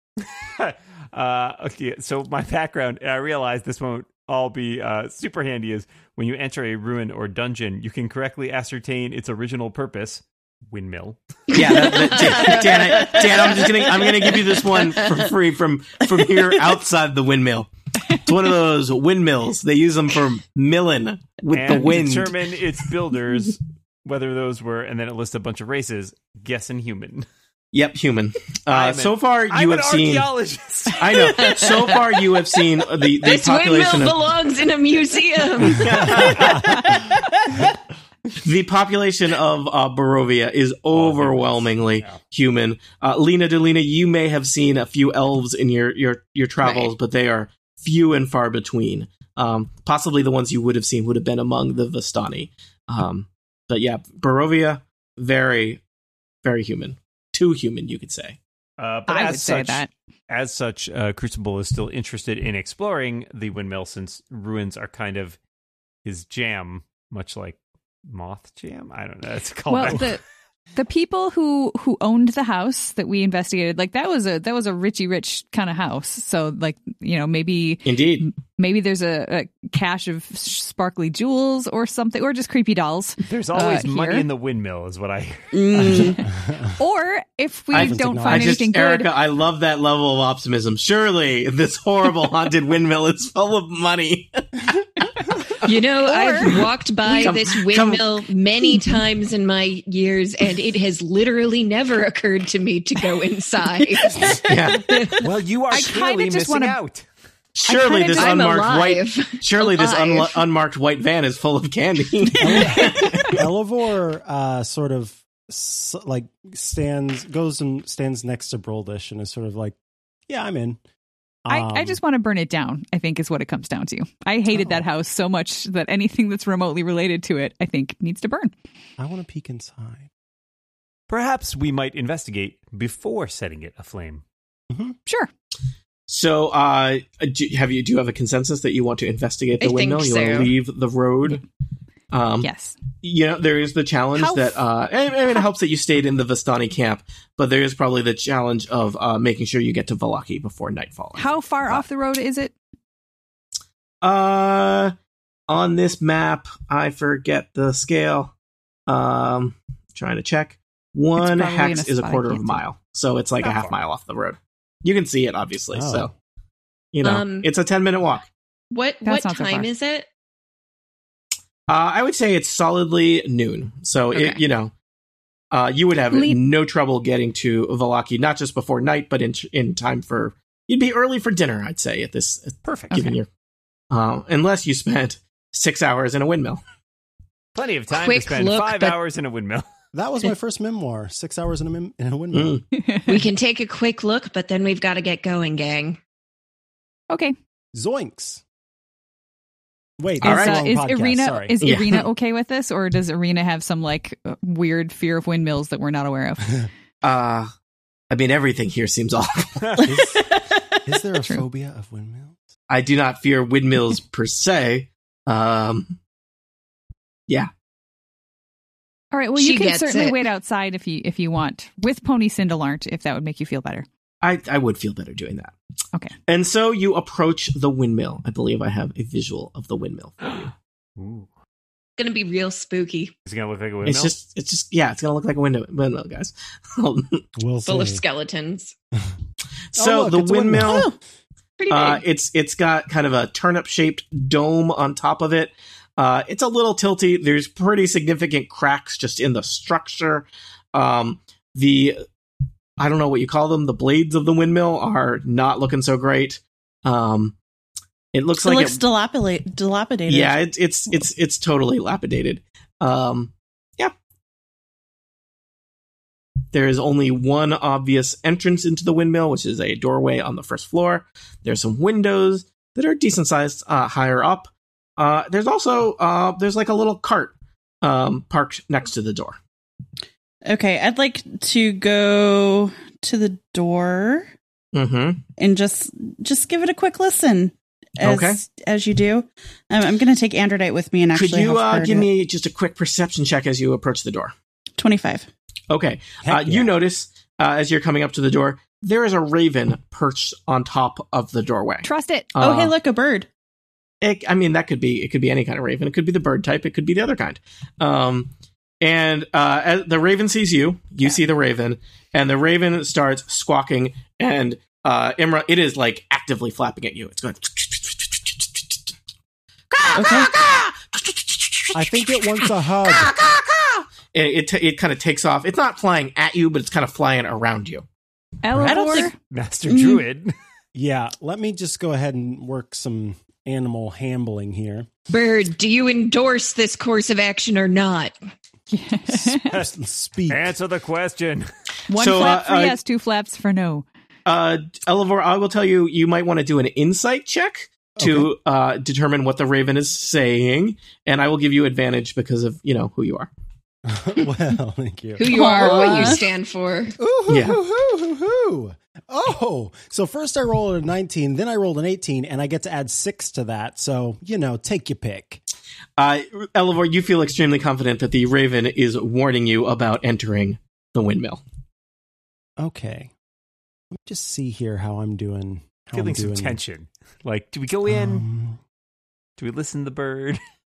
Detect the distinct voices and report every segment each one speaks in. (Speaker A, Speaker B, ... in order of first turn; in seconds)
Speaker A: 0.4-11.8, 21.5-27.3, 28.7-31.2, 40.9-42.2, 58.8-65.4, 66.0-70.2, 83.2-86.1, 105.2-107.1, 131.1-134.2, 182.6-182.9, 187.5-189.7, 231.0-231.3, 233.2-234.1, 329.3-330.3, 340.3-341.5, 375.9-378.2, 379.4-380.4
Speaker B: 11.5-22.5, 27.7-30.3, 30.9-34.3, 35.6-37.1, 38.3-55.8, 56.4-58.4, 77.8-78.3, 87.7-94.8, 97.1-98.1, 104.4-105.2, 107.5-113.4, 136.1-141.4, 142.1-142.5, 143.0-151.8, 154.0-154.9, 155.5-158.3, 158.9-166.1, 166.9-168.3, 171.7-174.7, 175.5-183.3, 183.9-186.6, 192.3-192.6, 200.2-200.6, 201.6-202.1, 207.0-207.5, 208.1-209.8, 212.7-216.0, 224.2-225.5, 226.3-230.5, 233.8-237.2, 239.7-240.9, 241.7-252.0, 252.8-257.4, 258.1-258.8, 260.1-263.9, 266.5-279.4, 284.7-285.2, 288.0-288.4, 291.1-294.3, 295.7-302.7, 304.0-318.8, 319.7-321.8, 322.8-327.8, 341.9-342.8, 344.2-353.3, 357.3-357.6, 366.0-371.4
Speaker C: 12.0-13.7, 31.4-32.2, 33.1-36.5, 46.6-46.9, 95.6-105.2, 108.1-110.5, 139.6-140.5, 167.0-167.5, 168.7-170.1, 174.1-174.4, 187.9-189.0, 193.1-196.0, 219.3-220.2, 232.0-233.1, 237.6-238.7, 241.6-242.0, 335.1-338.1, 355.2-356.9
Speaker D: 36.2-36.6, 85.8-86.8, 87.7-88.6, 112.4-119.7, 120.3-120.8, 121.4-122.0, 124.5-124.8, 129.0-130.1, 134.7-134.9, 165.7-166.1, 189.9-192.6, 197.7-198.4, 200.0-201.6, 209.8-210.2, 210.8-212.4, 237.4-238.0, 239.7-240.9, 296.2-296.7, 321.7-323.1, 330.7-334.9, 339.1-340.5, 348.0-348.3, 353.9-356.2, 357.0-365.4, 372.6-373.1, 373.9-376.6, 377.9-378.6
Speaker E: 59.1-59.9, 69.7-70.2, 70.7-84.2, 86.8-89.1, 96.0-97.3, 105.7-106.8, 107.7-108.4, 121.5-128.5, 142.4-142.8, 144.2-144.6, 151.2-152.5, 161.2-162.6, 169.0-169.7, 176.1-176.4, 182.9-183.2, 197.1-197.3, 200.2-206.7, 219.1-223.8, 301.8-302.3, 328.4-329.1, 338.7-339.5, 341.9-343.8
Speaker F: 85.5-86.2, 209.8-210.6, 240.6-241.0, 258.4-260.4, 280.4-284.3, 285.4-292.1, 294.8-295.3, 302.4-303.3, 319.9-320.3, 328.6-329.1, 329.6-330.0, 355.3-356.2